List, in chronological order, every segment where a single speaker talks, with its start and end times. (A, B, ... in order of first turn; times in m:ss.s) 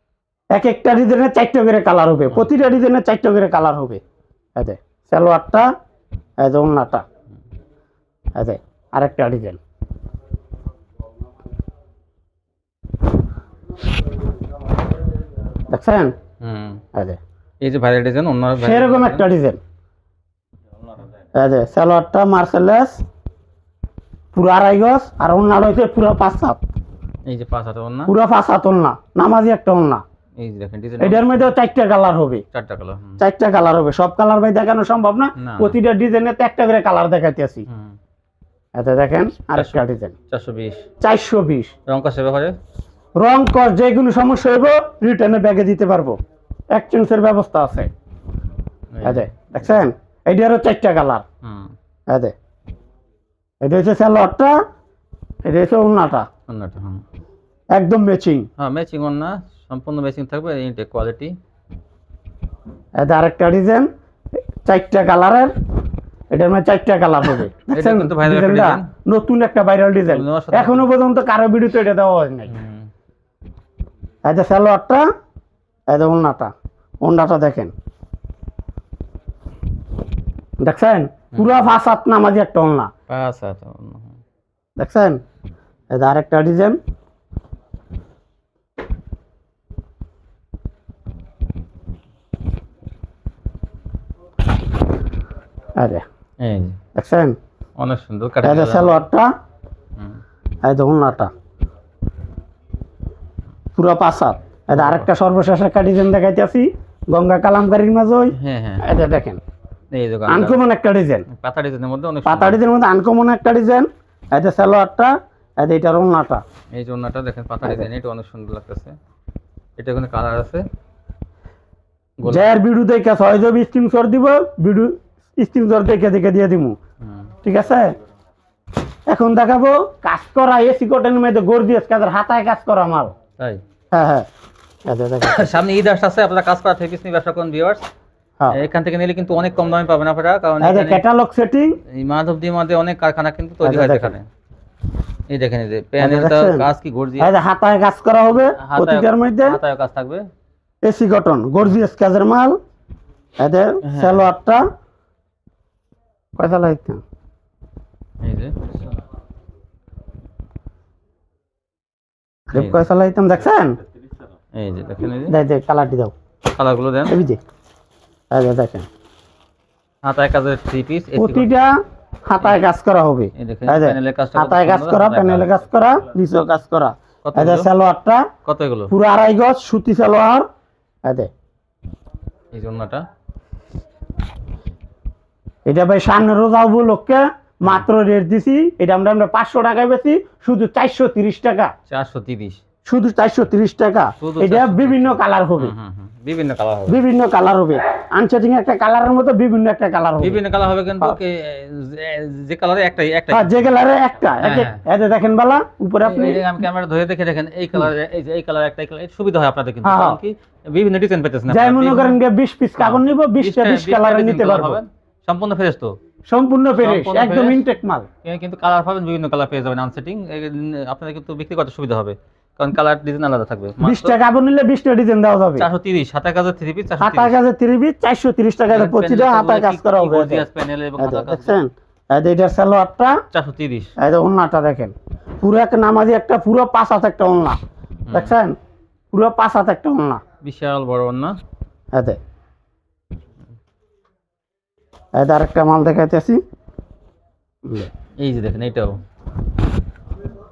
0:00.5-0:04.0 A
0:04.6-0:05.7 A
0:06.4-0:07.0 A
0:08.4-0:09.6 A
0:15.7-0:16.1 A
0:16.4-0:16.8 B
0:17.6-0:19.3 B
0:18.6-0:19.6 A
0:21.4-0:23.0 A
0:24.3-0:26.6 A
0:27.2-0:28.1 B
0:28.1-0:30.0 A
0:30.4-0:31.5 B
0:31.0-0:32.4 A
0:32.5-0:33.2 B
0:33.2-0:37.6 A
0:35.4-0:35.8 B
0:37.7-0:37.9 B
0:38.8-0:40.1 A
0:39.5-0:40.8 B
0:41.0-0:41.7 A
0:41.9-0:42.6 B
0:43.2-0:46.2 A
0:46.7-0:47.9 A
0:48.9-0:49.4 B
0:49.0-0:51.2 A
0:51.4-0:51.7 B
0:53.6-0:54.6 A
0:55.4-0:56.2 A
0:56.5-0:57.0 B
0:57.7-0:58.5 A
0:58.6-1:01.4 B
1:03.0-1:03.9 A
1:04.6-1:05.5 A
1:06.3-1:12.5 A
1:07.7-1:08.9 B
1:10.1-1:10.9 B
1:12.5-1:12.9 B
1:14.2-1:15.0 A
1:15.9-1:16.5 A
1:17.0-1:17.7 A
1:20.6-1:22.9 A
1:21.3-1:21.6 B
1:23.1-1:24.1 B
1:24.8-1:25.2 A
1:25.9-1:26.8 A
1:35.8-1:36.0 A
1:36.4-1:36.8 B
1:37.0-1:37.4 A
1:37.8-1:39.0 B
1:38.4-1:39.3 A
1:40.6-1:41.3 A
1:43.8-1:49.4 A
1:44.7-1:45.1 B
1:48.3-1:48.8 B
1:49.9-1:50.6 B
1:50.3-1:51.2 A
1:51.3-1:52.6 B
1:52.2-1:56.4 A
1:56.7-1:59.0 B
1:59.8-2:00.6 B
2:02.2-2:02.5 B
2:02.2-2:06.8 A
2:07.0-2:07.3 B
2:07.4-2:07.9 A
2:09.1-2:13.1 A
2:13.9-2:14.3 A
2:14.9-2:15.5 A
2:15.2-2:17.8 B
2:18.5-2:21.0 B
2:20.6-2:21.8 A
2:21.9-2:24.2 B
2:23.6-2:24.1 A
2:25.3-2:27.3 B
2:26.0-2:26.6 A
2:27.2-2:29.6 A
2:28.3-2:30.2 B
2:30.8-2:32.6 A
2:33.4-2:34.6 A
2:33.8-2:34.3 B
2:36.4-2:37.0 A
2:38.2-2:38.8 B
2:42.5-2:43.8 A
2:42.5-2:42.8 B
2:44.6-2:45.4 B
2:45.3-2:46.1 A
2:46.5-2:47.1 B
2:47.1-2:47.4 A
2:48.3-2:48.9 A
2:50.0-2:51.5 B
2:51.2-2:58.3 A
2:53.4-2:55.6 B
2:57.2-2:57.7 B
2:58.4-2:58.9 B
2:58.9-3:00.4 A
3:02.5-3:03.0 B
3:05.6-3:11.7 A
3:11.9-3:12.6 B
3:12.8-3:15.7 A
3:14.2-3:17.0 B
3:16.9-3:20.4 A
3:20.2-3:23.6 B
3:23.3-3:26.5 A
3:24.4-3:24.8 B
3:26.0-3:32.2 B
3:29.8-3:30.2 A
3:31.5-3:34.8 A
3:32.8-3:36.0 B
3:36.3-3:38.1 A
3:36.8-3:37.6 B
3:38.2-3:44.2 B
3:43.8-3:45.7 A
3:45.6-3:47.3 B
3:47.0-3:50.4 A
3:48.7-3:51.6 B
3:51.0-3:53.2 A
3:53.3-3:53.9 B
3:54.0-3:57.6 A
3:58.1-3:58.3 B
3:58.1-3:58.6 A
3:59.1-4:00.2 A
4:00.4-4:01.3 B
4:05.2-4:06.4 A
4:08.2-4:09.0 B